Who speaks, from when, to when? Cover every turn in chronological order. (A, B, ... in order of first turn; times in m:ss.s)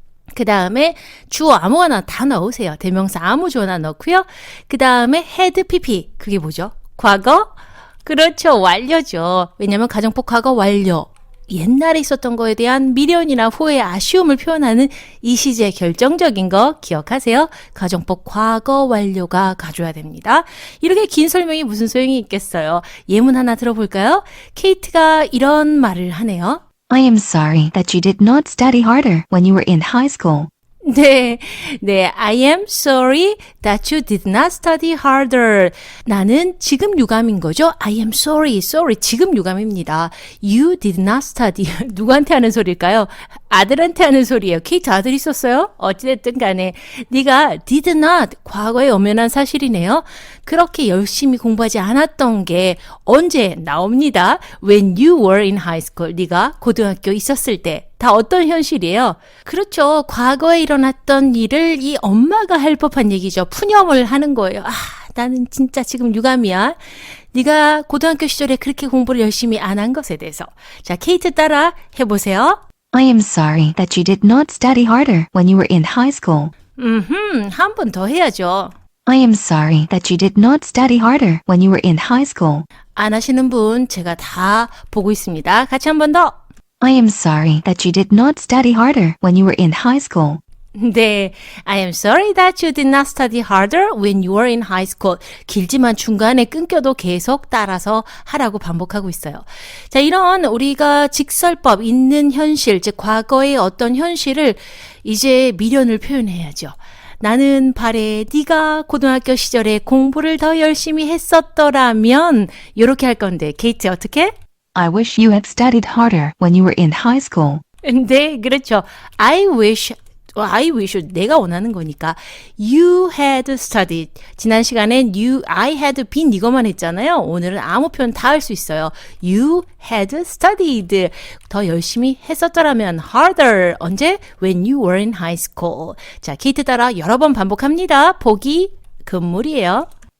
0:00.3-0:26.6 A
0:26.9-0:30.5 B
0:30.8-1:06.8 A
1:07.3-1:12.6 A
1:12.9-1:16.5 B
1:16.8-1:18.7 A
1:19.0-1:22.7 B
1:22.9-1:26.4 A
1:26.8-1:30.4 B
1:30.8-1:54.3 A
1:54.7-1:57.6 B
1:57.8-2:19.9 A